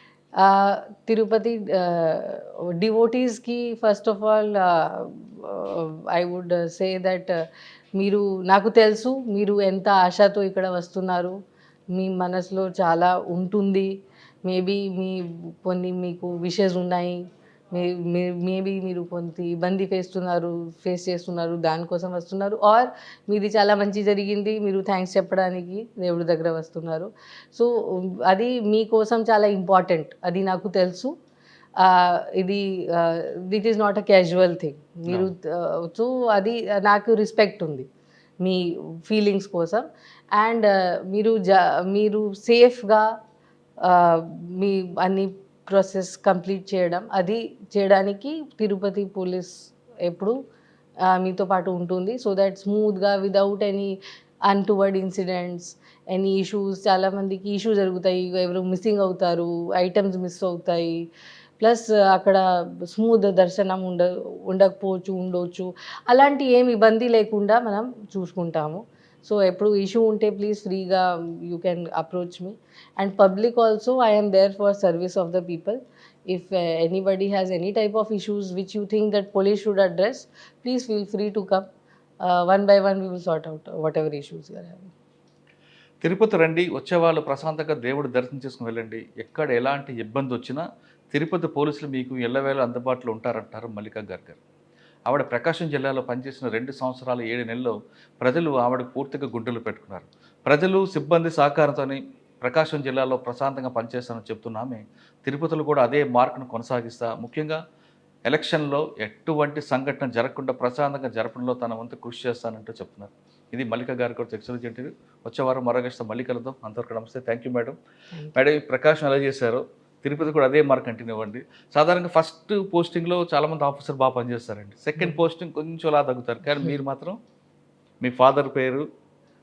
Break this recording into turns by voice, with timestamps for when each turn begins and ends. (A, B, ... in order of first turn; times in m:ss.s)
0:00.4-0:07.3 A
0:08.0-0:11.3 A
0:11.9-0:13.9 A
0:14.4-0:31.1 A
0:31.8-0:37.9 A
0:35.1-0:35.3 B
0:38.4-0:43.1 A
0:43.8-0:50.4 A
0:51.0-1:01.0 A
1:01.6-1:21.6 A
1:22.2-1:24.9 A
1:26.0-1:34.4 B
1:35.1-1:47.6 B
1:48.2-1:57.8 B
1:58.3-2:07.2 B
2:06.5-2:06.8 A
2:08.0-2:08.8 B